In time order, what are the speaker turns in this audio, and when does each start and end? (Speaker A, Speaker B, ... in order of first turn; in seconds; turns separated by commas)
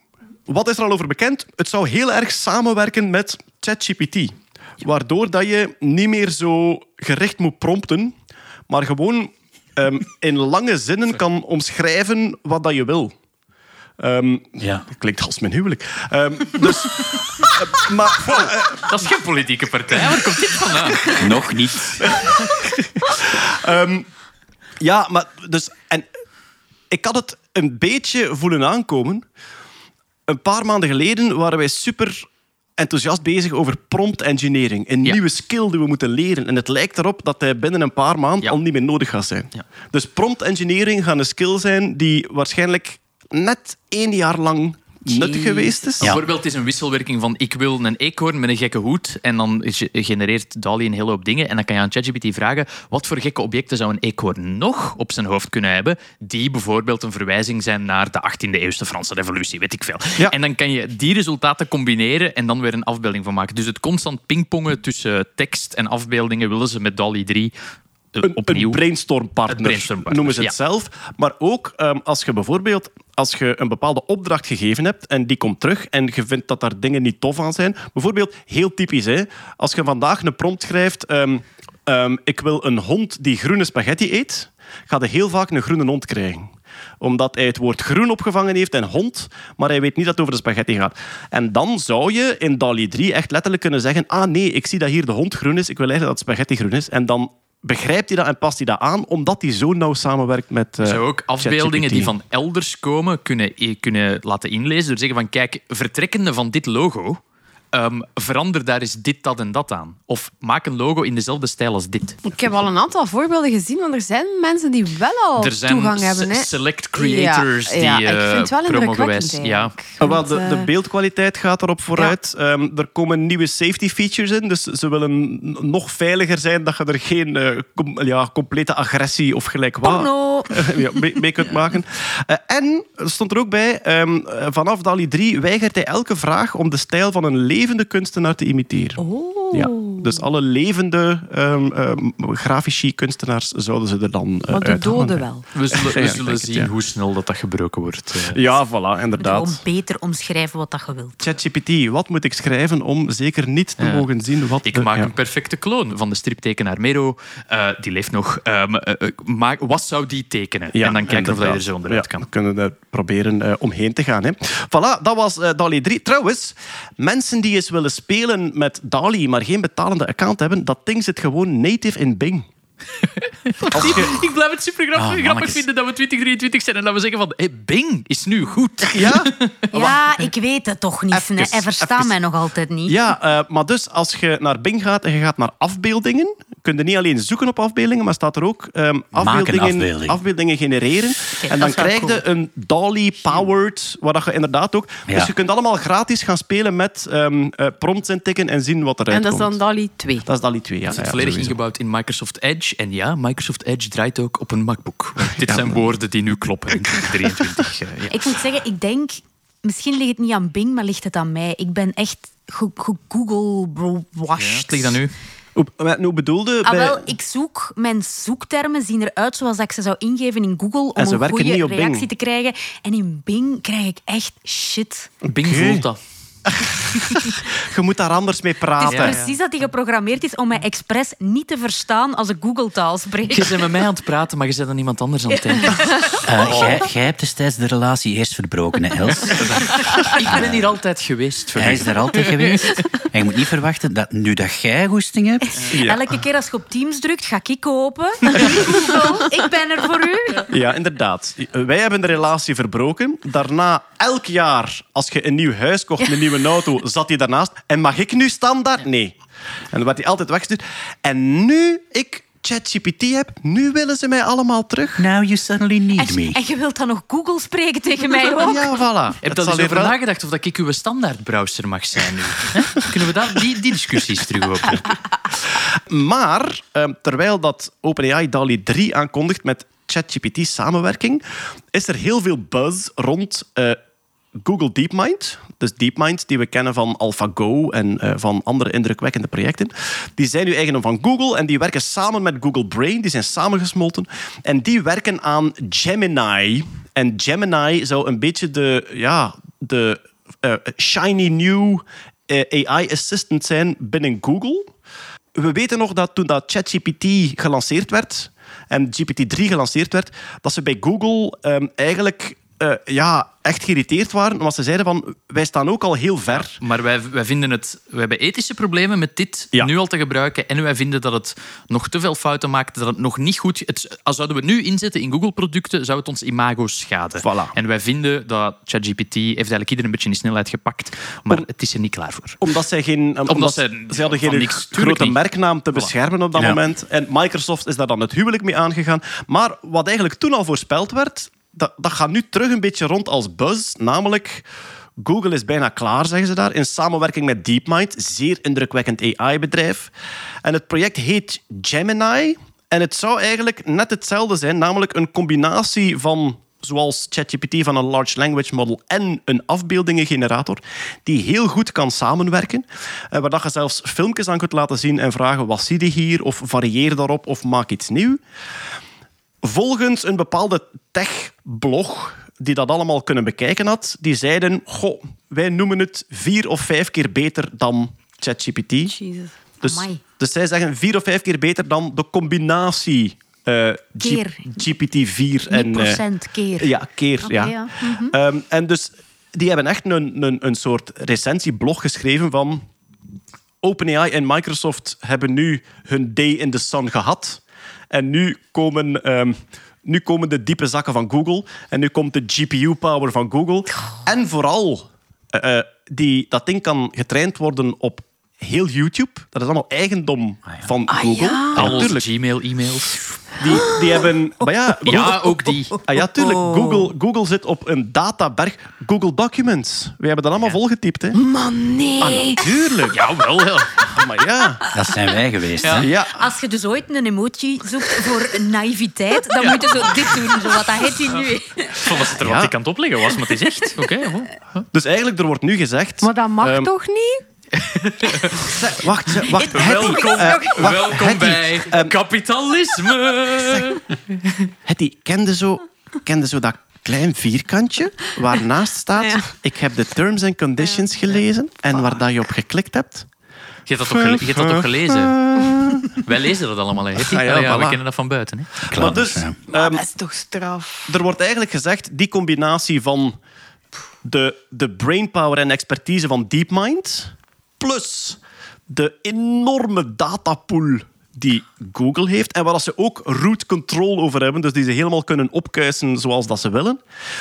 Speaker A: 0.5-8.1, Speaker A: 8.7-13.1, Speaker A: 14.0-19.0, Speaker B: 14.6-14.9, Speaker C: 18.8-21.2, Speaker B: 21.2-22.1, Speaker A: 22.0-24.1, Speaker A: 24.8-26.1, Speaker A: 26.9-29.2, Speaker A: 30.3-46.2, Speaker D: 45.1-45.7, Speaker C: 46.0-67.5, Speaker C: 68.2-68.8, Speaker A: 68.2-102.1, Speaker C: 69.5-70.5, Speaker C: 100.8-107.2, Speaker C: 107.7-112.2, Speaker E: 112.2-120.7, Speaker C: 115.4-119.8, Speaker A: 120.0-139.0, Speaker D: 129.8-131.0, Speaker E: 139.0-140.0, Speaker D: 139.2-139.9, Speaker A: 139.5-146.7, Speaker E: 144.5-145.4, Speaker C: 145.5-148.4, Speaker A: 148.3-149.6, Speaker D: 149.2-151.2, Speaker A: 151.2-155.1, Speaker C: 153.8-154.1, Speaker C: 154.7-162.3, Speaker A: 160.8-172.5, Speaker C: 173.0-179.6, Speaker A: 173.7-174.2, Speaker A: 174.9-175.6, Speaker A: 178.9-180.0, Speaker D: 179.7-183.0, Speaker A: 181.1-182.2, Speaker A: 182.9-199.6, Speaker B: 189.2-190.2, Speaker D: 191.4-192.2, Speaker E: 199.1-200.3, Speaker A: 200.3-201.6, Speaker C: 200.9-208.3, Speaker A: 205.3-205.8, Speaker D: 208.1-215.0, Speaker C: 214.3-215.1, Speaker A: 215.6-217.1, Speaker D: 216.6-225.1, Speaker A: 221.0-222.1, Speaker A: 225.2-225.9, Speaker C: 225.3-226.0, Speaker A: 226.5-229.2, Speaker D: 228.8-233.6, Speaker C: 228.8-229.4, Speaker C: 233.3-236.7, Speaker D: 235.4-236.6, Speaker B: 236.2-239.4, Speaker C: 239.3-241.9, Speaker B: 240.2-240.6, Speaker B: 241.6-245.5, Speaker D: 245.5-250.5, Speaker A: 245.7-246.1, Speaker A: 248.3-248.9, Speaker A: 250.5-259.2, Speaker A: 259.7-265.1, Speaker B: 265.0-266.4, Speaker D: 266.0-268.8, Speaker A: 268.4-269.9, Speaker C: 269.2-274.9, Speaker A: 275.5-283.8, Speaker A: 284.4-304.7, Speaker A: 305.4-316.6, Speaker C: 316.3-332.4, Speaker A: 327.2-327.5, Speaker A: 332.4-344.4, Speaker C: 333.3-335.2, Speaker B: 336.4-336.6, Speaker A: 345.0-349.9, Speaker A: 350.4-368.2, Speaker A: 369.4-378.9, Speaker D: 379.0-380.0, Speaker A: 379.6-386.0, Speaker D: 384.0-384.5, Speaker D: 385.5-388.1, Speaker A: 386.6-392.6, Speaker A: 393.6-412.0, Speaker E: 410.9-411.6, Speaker C: 411.6-413.2, Speaker A: 413.4-421.2, Speaker C: 414.9-415.8, Speaker D: 415.8-416.8, Speaker E: 421.2-422.3, Speaker D: 421.4-422.2, Speaker A: 422.0-423.1, Speaker C: 422.9-423.9, Speaker A: 423.9-424.6, Speaker B: 424.7-425.9, Speaker A: 425.7-426.3, Speaker D: 426.0-431.9, Speaker C: 429.4-430.2, Speaker C: 431.8-434.6, Speaker A: 432.1-432.5, Speaker A: 434.7-436.7, Speaker E: 436.0-437.2, Speaker C: 437.5-438.6, Speaker A: 438.4-441.9, Speaker D: 439.3-440.4, Speaker C: 439.5-444.5, Speaker A: 443.4-443.8, Speaker A: 444.6-453.1, Speaker C: 453.7-455.2, Speaker A: 453.9-455.9, Speaker C: 455.9-458.6, Speaker A: 457.0-457.8, Speaker A: 458.6-459.8, Speaker B: 458.7-459.4, Speaker E: 459.5-460.7, Speaker A: 460.9-463.1, Speaker A: 464.1-476.8